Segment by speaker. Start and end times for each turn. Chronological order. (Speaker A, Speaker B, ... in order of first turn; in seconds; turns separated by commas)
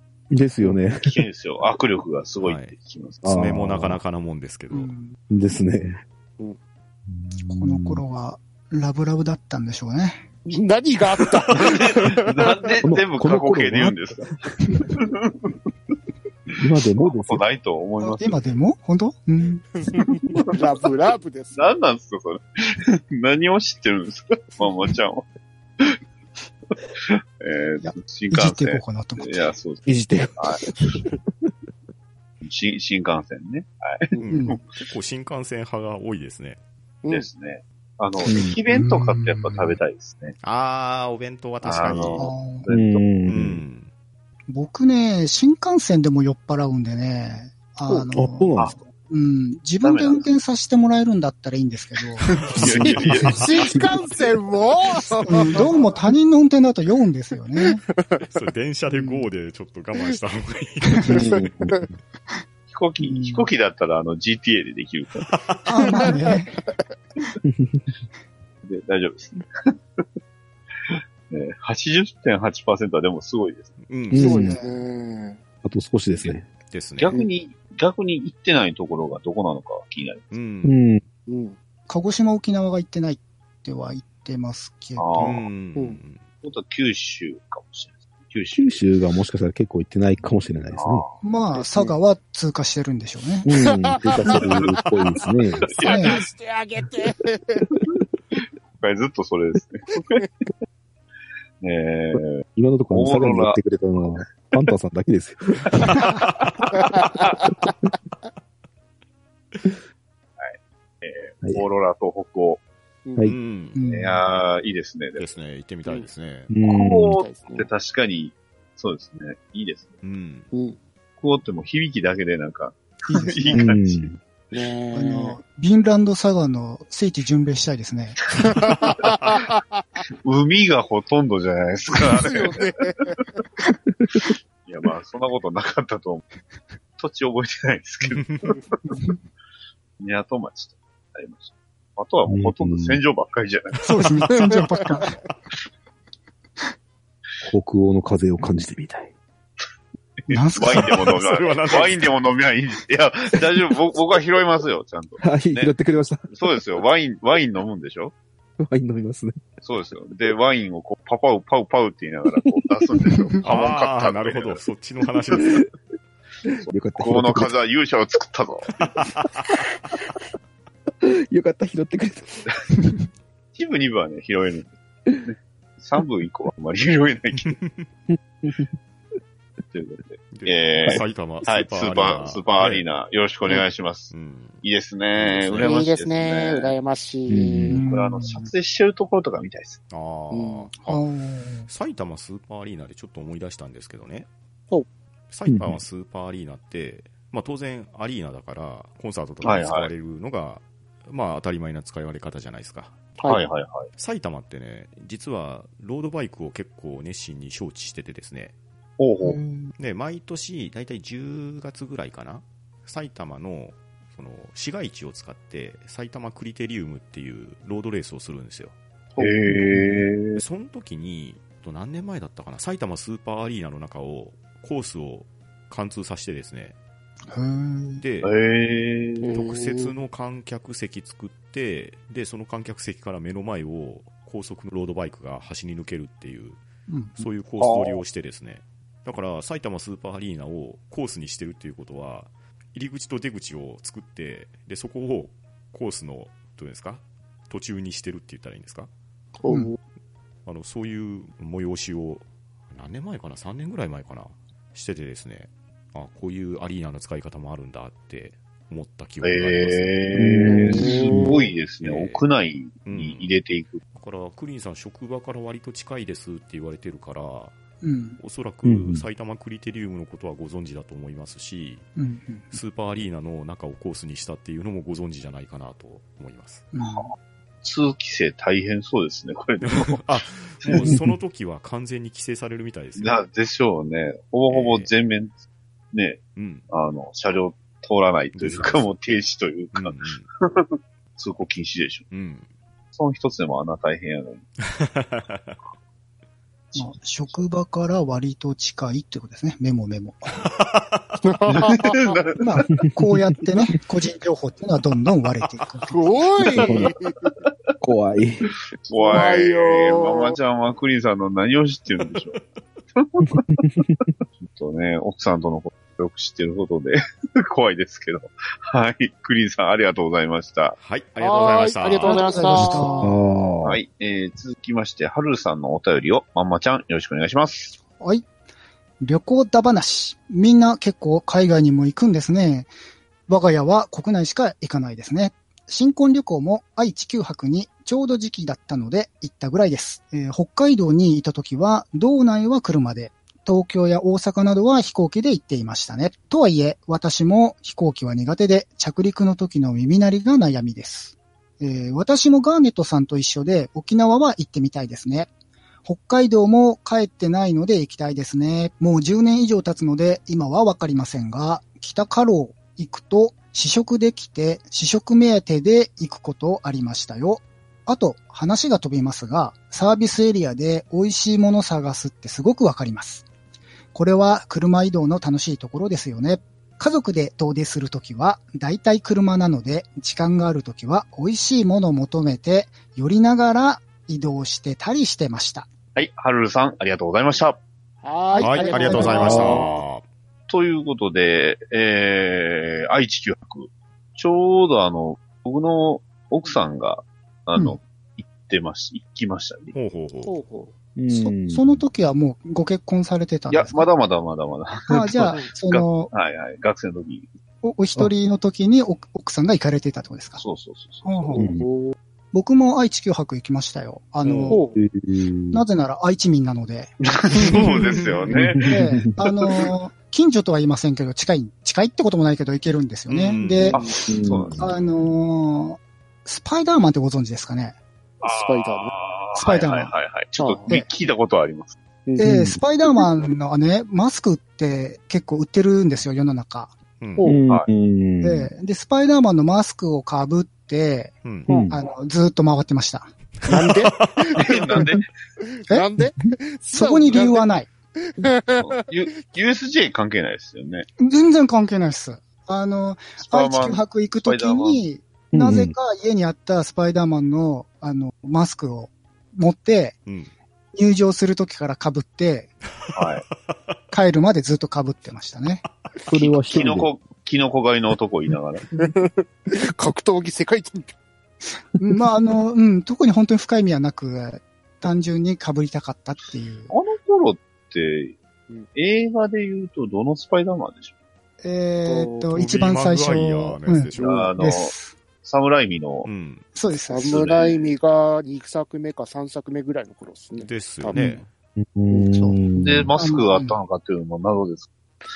Speaker A: 0.3-1.2, Speaker B: 1.0-3.2, Speaker C: 2.4-4.9, Speaker A: 3.2-4.0, Speaker D: 4.7-5.2, Speaker A: 5.3-6.0, Speaker A: 7.1-8.0, Speaker D: 7.5-10.3, Speaker E: 10.5-12.8, Speaker B: 11.5-14.3, Speaker A: 12.8-14.5, Speaker B: 14.9-15.6, Speaker B: 16.5-18.5, Speaker A: 16.6-17.4, Speaker D: 18.0-19.8, Speaker E: 19.9-21.7, Speaker B: 20.1-20.6, Speaker B: 21.5-25.3, Speaker B: 27.0-30.7, Speaker D: 27.8-29.5, Speaker A: 29.9-31.0, Speaker B: 32.4-34.6, Speaker C: 34.2-36.6, Speaker D: 34.3-34.6, Speaker B: 37.1-40.4, Speaker A: 38.2-38.6, Speaker D: 38.7-39.8, Speaker C: 40.4-42.3, Speaker B: 41.6-43.1, Speaker D: 42.2-42.7, Speaker A: 42.7-43.6, Speaker C: 43.3-43.9, Speaker D: 44.5-52.5, Speaker A: 47.9-48.8, Speaker B: 49.8-50.3, Speaker B: 52.5-53.7, Speaker A: 52.6-54.0, Speaker E: 52.8-55.8, Speaker D: 55.3-57.8, Speaker E: 57.6-58.2, Speaker C: 58.3-61.2, Speaker D: 58.9-59.3, Speaker A: 61.1-61.9, Speaker E: 61.2-61.8, Speaker B: 62.7-65.3, Speaker D: 63.1-63.4, Speaker C: 65.3-65.9, Speaker D: 65.7-66.6, Speaker A: 67.5-67.9, Speaker B: 68.6-70.0, Speaker B: 70.9-73.7, Speaker C: 73.8-74.4, Speaker A: 74.1-74.6, Speaker D: 74.1-74.8, Speaker E: 74.2-75.4, Speaker A: 75.6-76.5, Speaker C: 76.7-77.2, Speaker B: 77.0-80.4, Speaker C: 80.3-80.8, Speaker A: 80.6-81.0, Speaker E: 81.3-81.6, Speaker D: 81.9-85.4, Speaker B: 85.0-85.5, Speaker C: 85.2-86.2, Speaker B: 86.4-88.7, Speaker A: 88.5-91.0, Speaker B: 90.7-91.2, Speaker D: 91.2-93.5, Speaker E: 91.5-92.0, Speaker A: 93.5-95.7, Speaker E: 93.6-97.7, Speaker B: 95.6-96.2, Speaker D: 95.8-96.2, Speaker B: 98.3-100.3, Speaker B: 101.6-103.6, Speaker A: 102.5-106.0, Speaker C: 106.2-106.5, Speaker E: 106.8-107.7, Speaker B: 110.4-112.6, Speaker E: 113.1-113.3, Speaker C: 113.2-113.8, Speaker D: 113.8-114.2, Speaker B: 113.9-115.4, Speaker C: 115.2-116.5, Speaker A: 116.5-117.2, Speaker B: 116.6-119.9, Speaker E: 117.2-117.7, Speaker C: 120.0-120.5, Speaker E: 120.5-120.8, Speaker B: 121.2-124.1, Speaker D: 123.1-123.8, Speaker A: 123.5-124.2, Speaker E: 124.5-125.4, Speaker D: 124.9-128.7, Speaker E: 128.5-129.8, Speaker B: 130.2-133.2, Speaker E: 132.2-133.1, Speaker B: 134.7-136.2, Speaker B: 137.0-139.0, Speaker C: 138.2-138.5, Speaker B: 140.0-144.5, Speaker A: 142.3-143.0, Speaker D: 143.8-145.2, Speaker A: 147.4-149.1, Speaker B: 150.2-155.7, Speaker D: 150.3-151.1, Speaker C: 151.1-152.1, Speaker A: 155.2-156.4, Speaker B: 156.3-158.1, Speaker A: 158.6-159.4, Speaker B: 159.6-164.6, Speaker D: 163.2-163.4, Speaker C: 163.4-165.7, Speaker A: 166.6-167.5, Speaker B: 166.7-169.0, Speaker C: 168.8-169.5, Speaker A: 171.1-172.5, Speaker B: 173.5-177.6, Speaker C: 177.4-177.9, Speaker A: 178.1-178.7, Speaker B: 179.7-186.7, Speaker C: 180.3-182.8, Speaker C: 184.1-184.6, Speaker C: 185.2-185.8, Speaker E: 185.6-187.8, Speaker A: 187.3-187.8, Speaker D: 187.7-188.5, Speaker B: 187.8-189.8, Speaker C: 189.9-191.0, Speaker E: 190.3-190.7, Speaker D: 190.8-191.7, Speaker C: 191.7-194.3, Speaker C: 195.3-203.0, Speaker A: 195.5-195.8, Speaker B: 199.4-199.9, Speaker B: 203.2-203.9, Speaker C: 204.0-208.5, Speaker B: 209.0-209.4, Speaker D: 209.2-209.7, Speaker C: 209.8-218.7, Speaker B: 219.2-220.4, Speaker C: 220.3-226.8, Speaker D: 227.3-228.0, Speaker C: 228.0-228.3, Speaker B: 228.2-229.3, Speaker E: 229.2-229.9, Speaker C: 229.3-236.6, Speaker D: 236.9-237.2, Speaker C: 237.2-248.9, Speaker B: 237.6-238.0, Speaker E: 249.4-249.8, Speaker C: 250.4-260.0, Speaker B: 259.2-263.8, Speaker A: 260.1-261.4, Speaker E: 260.5-261.4, Speaker C: 261.8-262.3, Speaker C: 262.9-263.3, Speaker C: 263.9-267.6, Speaker D: 267.8-268.2, Speaker C: 268.2-271.9, Speaker A: 268.6-269.1, Speaker D: 272.0-272.6, Speaker C: 272.5-276.7, Speaker D: 276.7-277.1, Speaker B: 277.6-280.1, Speaker C: 279.6-283.2, Speaker B: 280.6-280.9, Speaker A: 280.8-281.1, Speaker B: 283.0-285.3, Speaker C: 284.5-284.9, Speaker B: 285.9-292.1, Speaker C: 286.4-286.7, Speaker C: 288.3-289.0, Speaker C: 289.7-290.3, Speaker C: 292.1-292.5, Speaker B: 292.9-294.4, Speaker C: 294.6-295.6, Speaker B: 296.7-297.4, Speaker D: 296.8-300.4, Speaker C: 300.4-301.2, Speaker E: 301.2-302.1, Speaker B: 301.5-302.6, Speaker D: 302.4-306.1, Speaker E: 305.9-307.3, Speaker A: 306.5-306.9, Speaker A: 307.8-308.5, Speaker B: 308.5-312.4, Speaker E: 309.0-310.4, Speaker C: 312.1-312.4, Speaker B: 312.9-313.6, Speaker B: 314.4-320.8, Speaker C: 320.8-322.9, Speaker E: 321.2-322.9, Speaker D: 322.1-323.2, Speaker A: 323.0-323.8, Speaker B: 323.6-327.8, Speaker D: 327.9-328.3, Speaker D: 329.0-332.7, Speaker D: 333.3-355.3, Speaker D: 355.9-373.2, Speaker D: 373.9-385.7, Speaker B: 386.0-387.6, Speaker E: 388.0-389.8, Speaker C: 388.4-390.0, Speaker D: 388.5-389.4, Speaker B: 388.6-389.6, Speaker B: 390.5-399.8, Speaker D: 397.6-397.8, Speaker C: 399.7-400.4, Speaker E: 400.3-400.7, Speaker A: 401.0-401.8, Speaker D: 401.1-403.9, Speaker B: 403.5-407.3, Speaker D: 404.9-406.1, Speaker D: 407.6-410.4, Speaker B: 410.4-411.3, Speaker D: 411.0-411.5, Speaker E: 411.3-412.0, Speaker A: 411.4-411.7, Speaker D: 412.3-414.6, Speaker A: 414.3-415.6, Speaker E: 414.5-414.8, Speaker D: 415.5-417.9, Speaker B: 417.0-418.8, Speaker C: 417.5-418.2, Speaker A: 418.3-419.1, Speaker D: 418.6-423.8, Speaker C: 423.1-423.8, Speaker B: 423.7-424.8, Speaker A: 424.1-424.7, Speaker D: 424.6-427.8, Speaker E: 428.2-428.9, Speaker B: 428.2-431.8, Speaker D: 429.4-429.9, Speaker E: 430.4-430.7, Speaker A: 432.2-432.6, Speaker D: 432.2-436.7, Speaker C: 437.0-437.3, Speaker A: 437.2-438.5, Speaker D: 438.2-441.1, Speaker C: 441.2-441.5, Speaker A: 441.5-441.8, Speaker D: 441.7-443.1, Speaker E: 443.5-444.8, Speaker C: 443.8-444.3, Speaker B: 444.4-445.1, Speaker E: 445.4-449.1, Speaker D: 446.7-447.7, Speaker B: 448.6-450.9, Speaker D: 451.0-460.1, Speaker B: 453.2-454.8, Speaker A: 455.3-455.8, Speaker D: 460.7-462.5, Speaker C: 462.9-463.8, Speaker B: 462.9-463.3, Speaker D: 463.9-465.6, Speaker A: 466.1-466.9, Speaker B: 466.1-468.6, Speaker E: 468.7-470.9, Speaker D: 471.8-476.7, Speaker B: 476.7-478.1, Speaker B: 478.8-480.9, Speaker D: 481.4-485.0, Speaker E: 481.9-482.3, Speaker C: 482.3-484.3, Speaker B: 484.0-486.1, Speaker C: 486.0-486.4, Speaker D: 486.6-487.1, Speaker E: 486.9-491.2, Speaker B: 487.0-487.6, Speaker C: 490.4-491.3, Speaker A: 491.6-492.9, Speaker E: 491.9-492.3, Speaker B: 492.6-494.7, Speaker D: 493.0-493.6